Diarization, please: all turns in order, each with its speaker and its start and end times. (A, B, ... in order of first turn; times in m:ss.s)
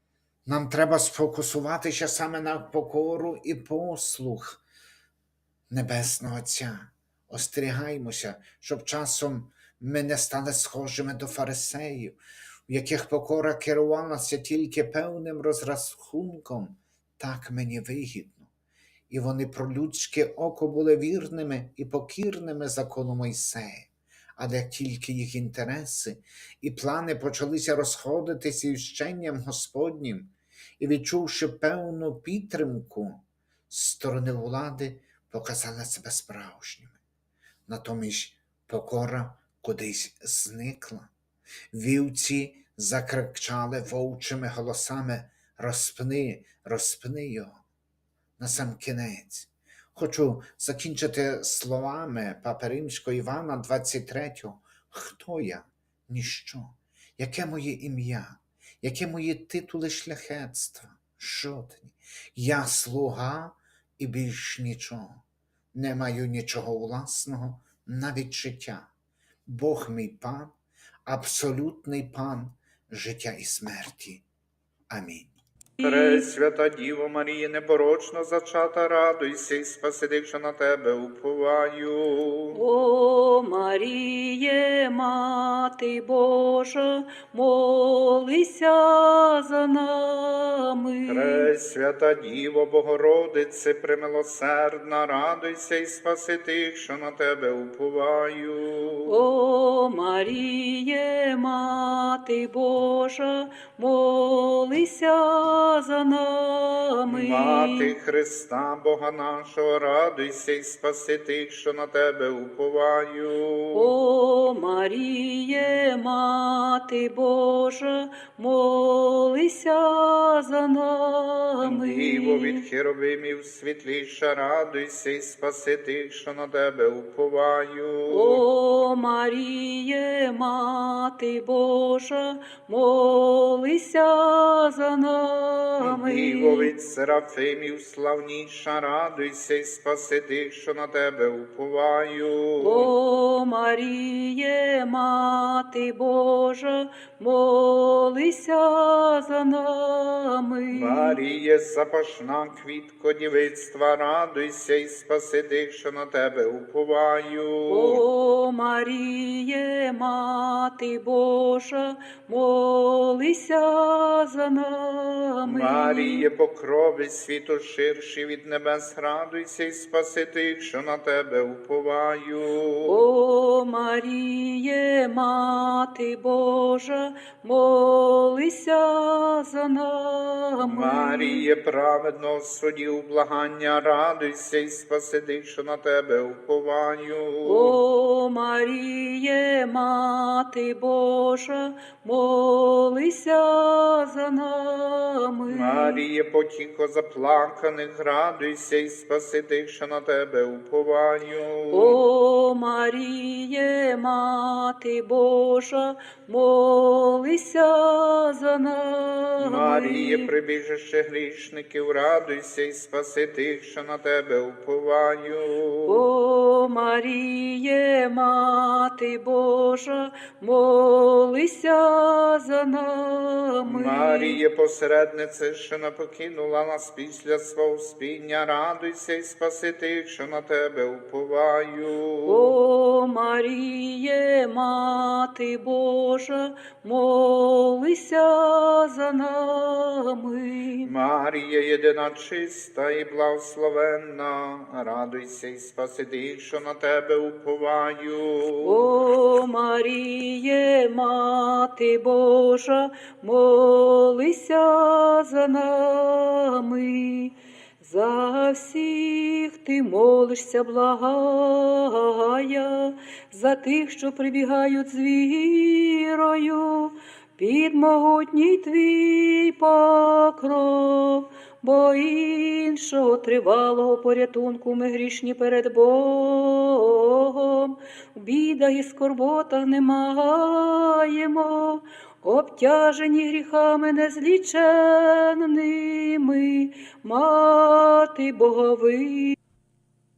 0:00.4-0:04.6 A
0:05.7-0:18.5 A
0:19.1-0:37.0 A
0:37.7-0:41.1 A
0:41.7-0:47.6 A
0:48.4-1:08.9 A
1:09.4-1:14.2 A
1:14.9-1:15.3 A
1:15.8-1:22.6 B
1:15.8-1:16.3 C
1:22.5-1:31.5 C
1:31.0-1:39.1 B
1:39.1-1:47.9 C
1:47.1-1:53.9 B
1:53.7-2:02.6 C
2:01.6-2:08.4 B
2:08.1-2:16.7 C
2:15.8-2:22.9 B
2:22.6-2:31.2 C
2:30.7-2:38.0 B
2:37.7-2:46.2 C
2:45.4-2:53.0 B
2:52.8-3:01.4 C
3:00.6-3:07.8 B
3:07.4-3:16.0 C
3:15.5-3:22.0 B
3:21.7-3:30.3 C
3:29.4-3:36.0 B
3:35.8-3:44.4 C
3:43.6-3:52.5 B
3:52.2-4:00.9 C
4:00.8-4:08.9 B
4:08.6-4:49.4 C